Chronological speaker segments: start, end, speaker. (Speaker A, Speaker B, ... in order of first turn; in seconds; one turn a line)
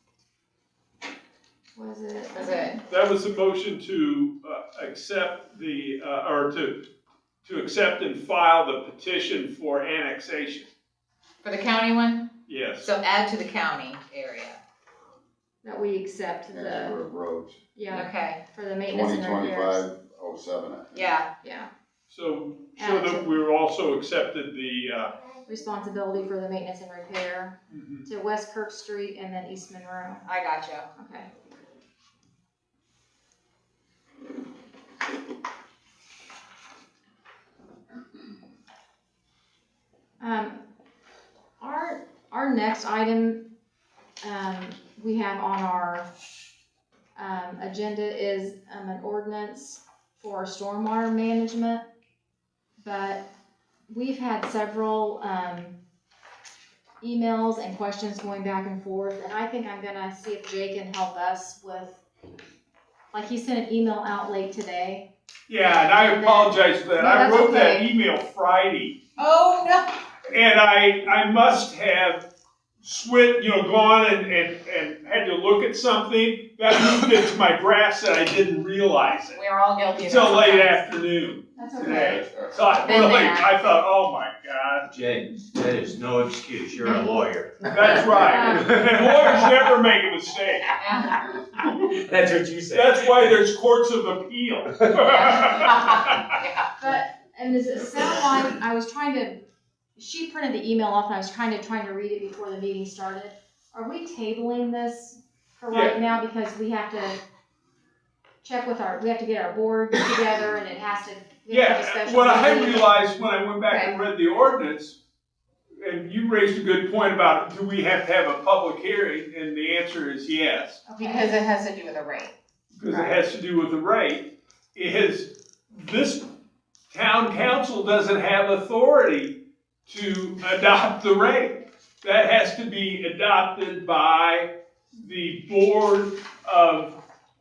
Speaker A: 1.7-2.8
Speaker B: 2.3-2.8
Speaker C: 2.9-6.8
Speaker C: 7.4-10.7
Speaker B: 11.4-14.6
Speaker C: 12.4-12.9
Speaker A: 15.6-17.0
Speaker D: 16.5-17.6
Speaker A: 17.7-19.9
Speaker B: 17.9-18.4
Speaker D: 18.9-21.1
Speaker B: 20.9-21.3
Speaker A: 21.4-21.7
Speaker C: 22.1-25.1
Speaker A: 22.8-23.3
Speaker A: 25.5-30.2
Speaker C: 27.7-28.0
Speaker B: 30.2-30.9
Speaker A: 30.9-31.3
Speaker A: 40.2-40.6
Speaker A: 41.6-43.4
Speaker A: 44.2-46.1
Speaker A: 47.1-51.8
Speaker A: 52.8-53.3
Speaker A: 53.9-55.8
Speaker A: 57.0-62.0
Speaker A: 63.1-65.1
Speaker C: 65.5-69.0
Speaker A: 66.0-67.9
Speaker B: 69.2-69.9
Speaker C: 70.3-72.2
Speaker C: 72.8-79.4
Speaker B: 79.3-80.8
Speaker C: 80.0-84.9
Speaker A: 81.6-82.2
Speaker B: 82.8-83.5
Speaker E: 84.9-89.7
Speaker A: 86.8-87.2
Speaker C: 87.6-90.7
Speaker A: 88.1-88.7
Speaker B: 90.8-91.2
Speaker E: 91.7-93.3
Speaker C: 92.7-96.3
Speaker B: 95.0-96.7
Speaker A: 96.8-99.4
Speaker A: 100.0-107.2
Speaker C: 105.7-106.0
Speaker A: 108.4-113.0
Speaker C: 111.5-115.0
Speaker C: 115.8-120.8
Speaker A: 120.8-121.4
Speaker B: 121.0-122.3
Speaker C: 122.7-126.2
Speaker A: 122.9-123.1
Speaker C: 126.9-129.3
Speaker C: 129.9-137.0